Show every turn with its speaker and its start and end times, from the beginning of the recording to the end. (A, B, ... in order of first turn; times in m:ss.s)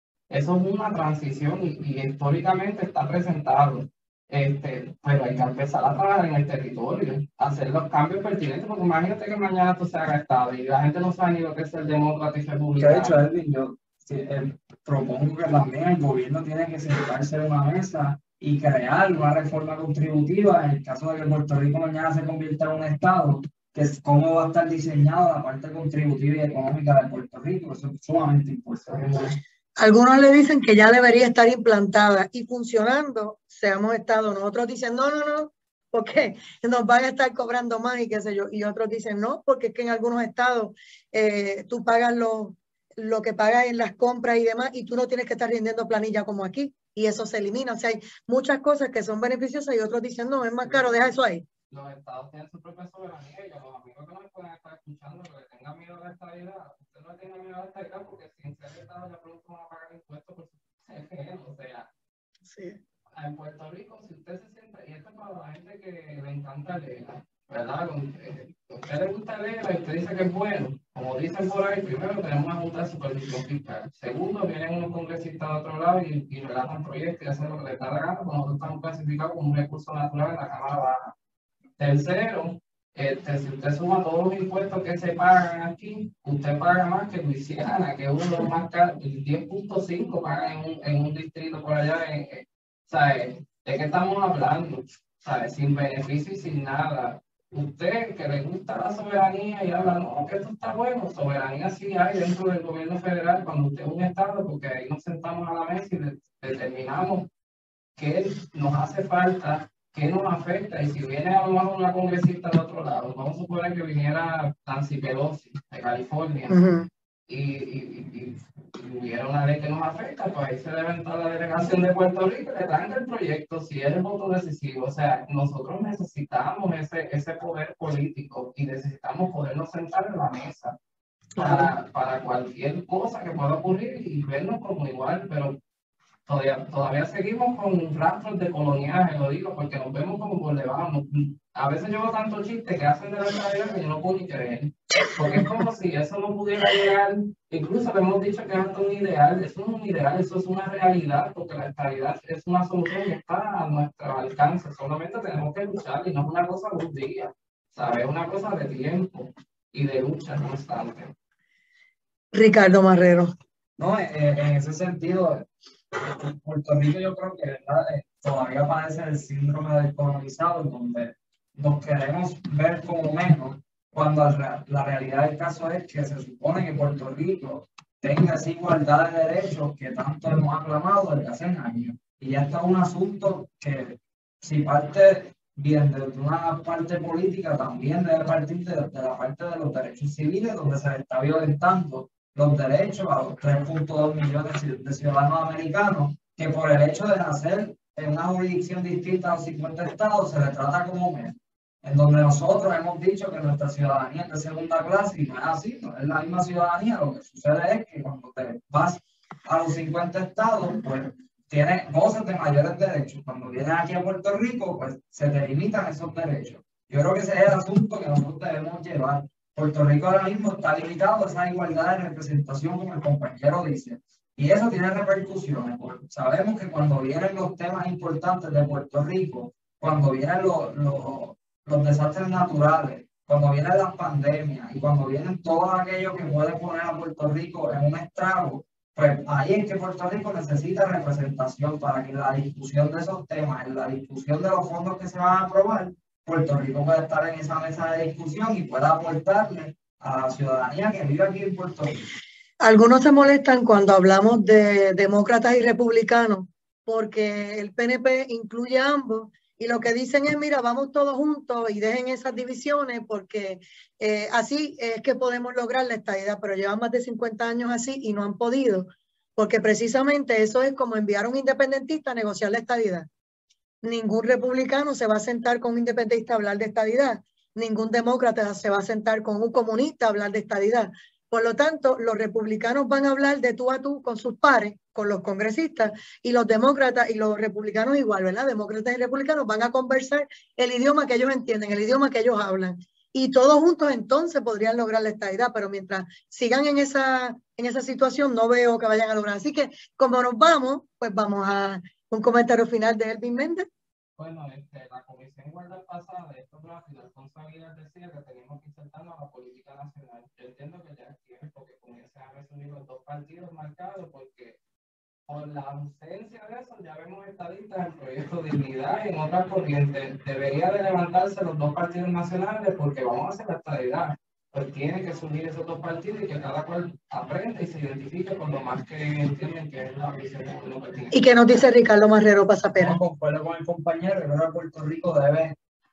0:00.3-0:13.2 A
0:12.8-0:29.3 B
0:28.9-0:29.3 A
0:29.8-0:51.4 C
0:50.6-0:51.2 A
0:51.7-1:01.9 A
1:02.5-1:02.8 C
1:03.2-1:21.2 A
1:21.8-1:47.3 A
1:48.0-1:56.6 A
1:56.5-1:56.9 C
1:57.3-2:10.8 A
2:11.4-2:11.7 C
2:11.4-2:15.6 A
2:16.3-2:41.1 A
2:42.3-2:43.3 C
2:43.8-4:12.1 B
4:12.6-4:33.1 C
4:33.8-5:03.7 C
5:04.2-5:14.6 A
5:15.3-5:31.4 A
5:31.1-5:33.0 C
5:32.8-5:35.6 B